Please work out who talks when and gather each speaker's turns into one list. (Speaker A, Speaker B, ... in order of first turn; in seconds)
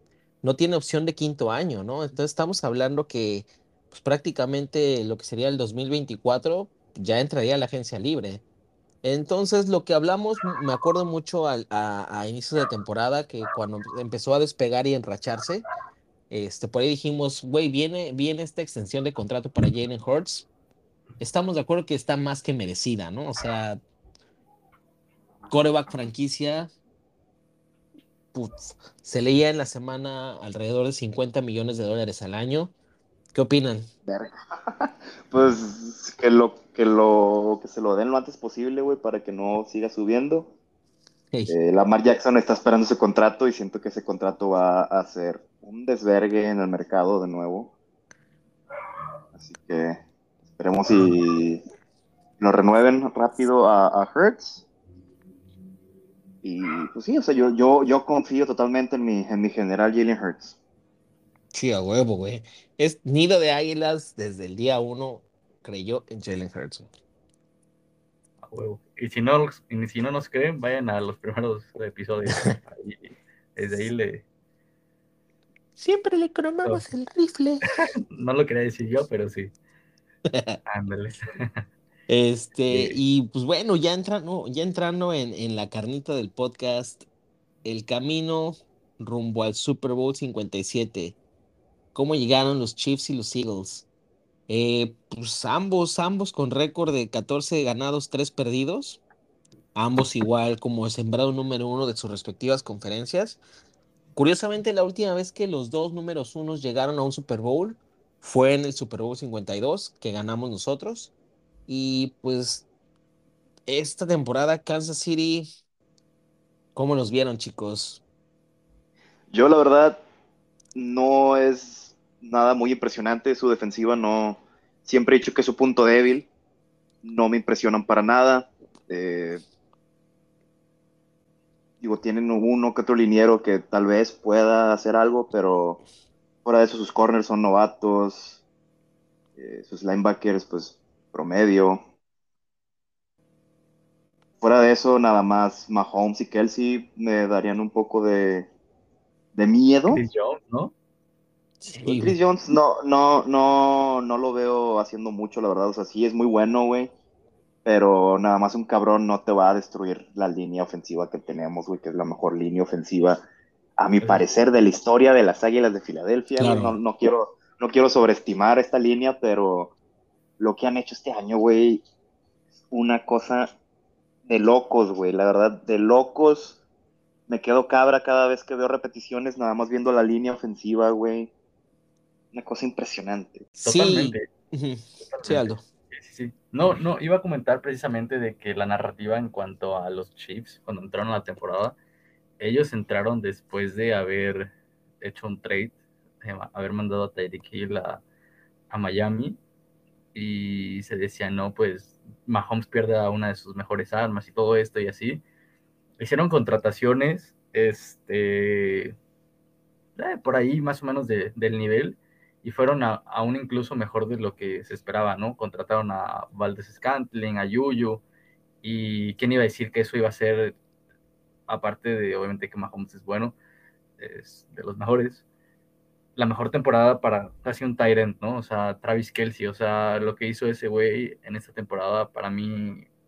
Speaker A: 0.4-8.4, 9.0-15.6, 16.3-20.5, 21.2-23.8, 25.5-26.7, 28.3-32.7, 33.3-33.9, 61.5-66.9, 75.8-77.7, 80.3-80.6, 82.1-87.0, 87.6-91.2, 91.9-93.9, 94.5-99.0, 99.7-103.4, 104.2-111.1, 111.7-112.7, 113.7-115.5, 116.7-118.0, 151.6-152.2, 166.4-166.8, 183.6-185.6
Speaker B: 34.1-40.5, 41.5-47.7, 49.4-50.0, 50.5-51.6, 52.4-54.6, 56.4-60.5, 119.3-120.0, 120.7-126.3, 127.0-129.4, 131.8-135.8, 136.4-138.4, 139.4-141.8, 144.4-148.5, 149.3-150.0, 151.8-156.9, 157.6-163.2, 163.8-169.7, 170.4-171.8, 172.7-173.5, 174.2-176.6, 177.3-181.3, 182.3-183.5
Speaker C: 68.4-74.2, 78.1-79.5, 80.7-81.6, 82.7-83.0, 149.9-150.7, 183.6-184.2, 185.0-191.8, 192.4-198.0, 198.7-199.4, 200.1-205.2, 206.0-208.9, 209.9-218.0, 218.6-220.6, 221.5-223.3, 224.0-225.2, 226.2-232.9